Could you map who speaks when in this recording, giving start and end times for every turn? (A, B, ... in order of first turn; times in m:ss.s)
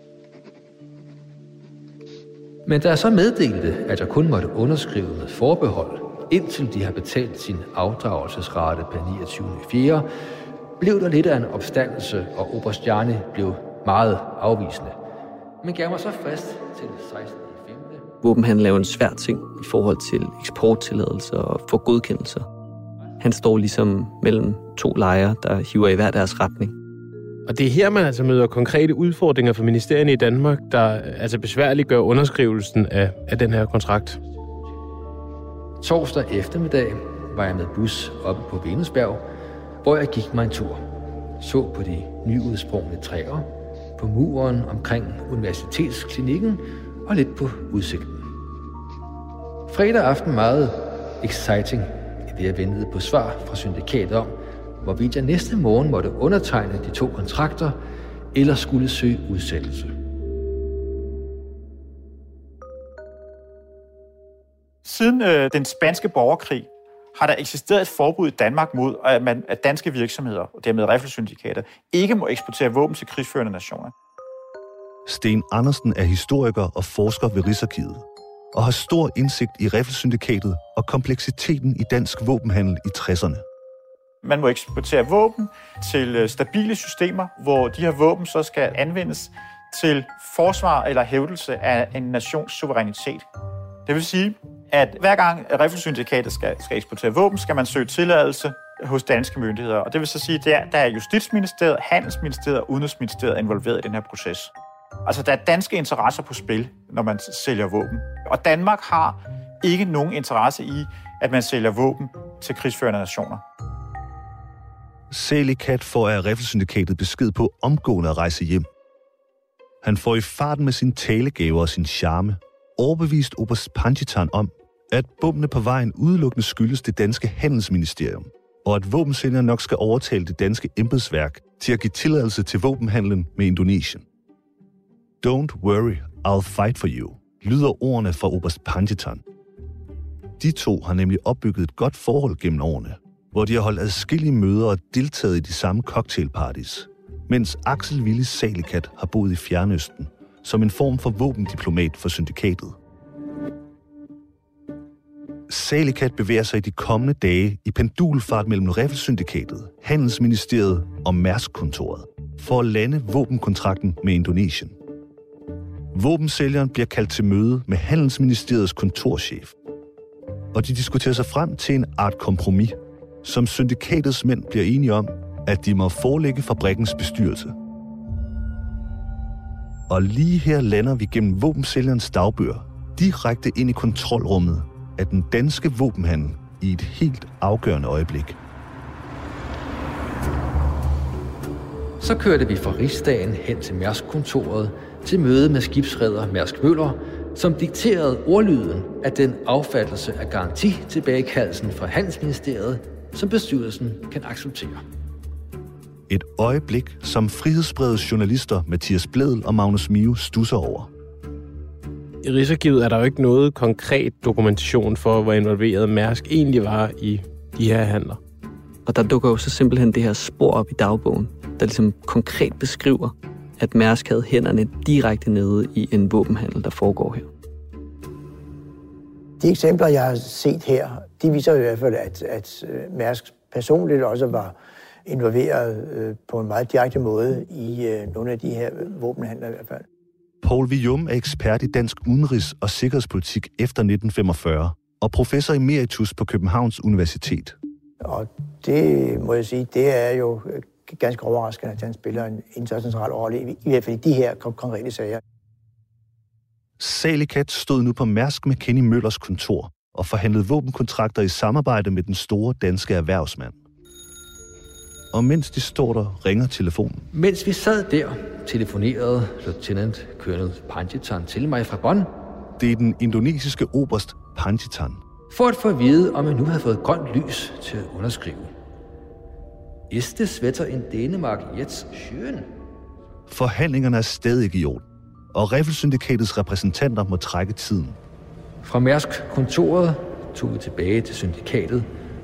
0:02.6-0:10.1 A
0:10.8-0:15.0 A
0:15.6-0:18.1 A
0:18.2-0:22.5 B
0:23.2-0:26.8 B
0:27.5-0:34.2 C
0:35.8-0:39.2 A
0:39.8-0:40.8 A
0:41.4-0:48.3 A
0:49.7-0:57.8 A
0:58.3-0:59.9 A
1:04.8-1:13.9 D
1:15.1-1:23.4 E
1:24.2-1:33.2 D
1:33.9-1:44.5 D
1:45.0-1:53.4 D
1:55.1-1:58.7 E
1:59.8-2:14.0 E
2:15.2-2:19.2 E
2:20.4-2:32.8 E
2:35.5-2:44.8 E
2:45.9-2:49.6 E
2:50.5-2:57.6 E
2:59.9-3:08.4 E
3:12.0-3:24.8 A
3:26.1-3:30.9 E
3:32.2-3:38.2 C
3:38.9-3:47.3 B
3:49.4-3:54.5 F
3:55.1-3:59.8 F
4:00.4-4:07.6 E
4:08.0-4:15.2 F
4:16.8-4:23.6 E
4:25.1-4:27.1 E
4:27.1-4:32.1 A
4:32.6-4:35.0 E
4:35.3-4:38.5 A
4:39.9-4:42.5 A
4:43.3-4:48.0 E
4:48.6-4:51.9 A